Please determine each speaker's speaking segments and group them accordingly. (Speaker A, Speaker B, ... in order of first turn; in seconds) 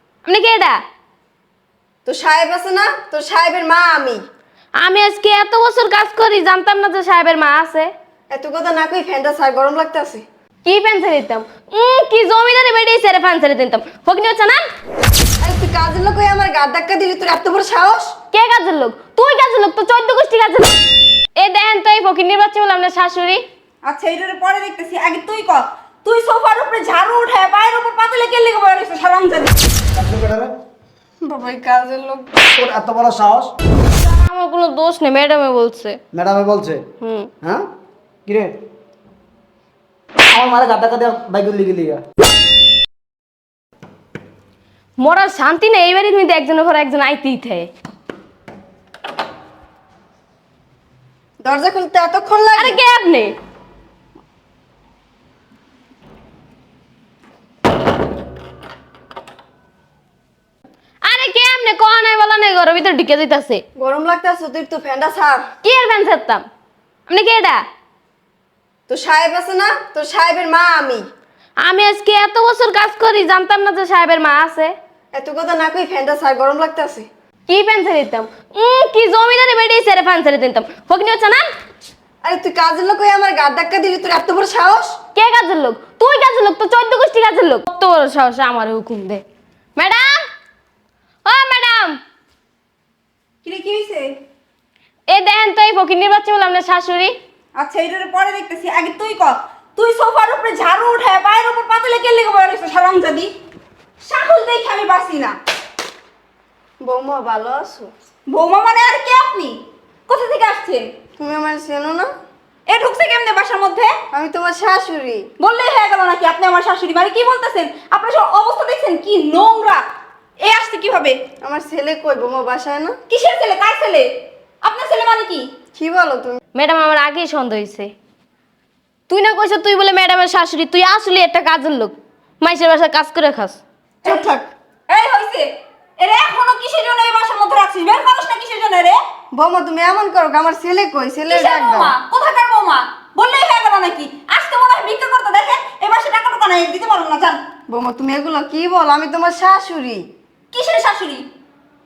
Speaker A: 0.2-0.8, 4.8-7.9, 10.6-14.6, 18.3-20.7, 21.4-23.4, 34.0-36.0, 37.0-37.3, 45.0-47.7, 52.5-53.3, 61.0-63.6, 65.6-66.4, 67.1-67.6, 71.6-74.7, 77.5-81.5, 85.1-89.2, 89.8-90.2, 91.2-92.0, 95.1-97.1, 126.5-127.9, 129.1-133.6
Speaker B: 2.0-4.2, 8.3-10.2, 15.4-18.1, 31.2-32.3, 51.4-52.8, 63.8-65.4, 68.9-71.0, 75.1-77.1, 82.2-85.0, 106.8-107.9, 111.2-112.1, 114.1-115.2, 121.4-123.0, 125.8-126.4, 134.0-134.5, 139.3-141.9, 147.7-150.0
Speaker C: 23.8-29.5, 93.4-94.2, 97.6-103.3, 104.0-105.3, 108.3-109.6, 110.1-110.8, 112.7-113.9, 115.4-119.8, 120.4-121.2, 123.1-124.1, 124.6-125.5, 134.9-139.0, 141.3-147.4, 150.5-151.3
Speaker D: 29.9-30.5, 32.5-33.5, 36.1-36.8, 38.3-38.5, 40.3-42.0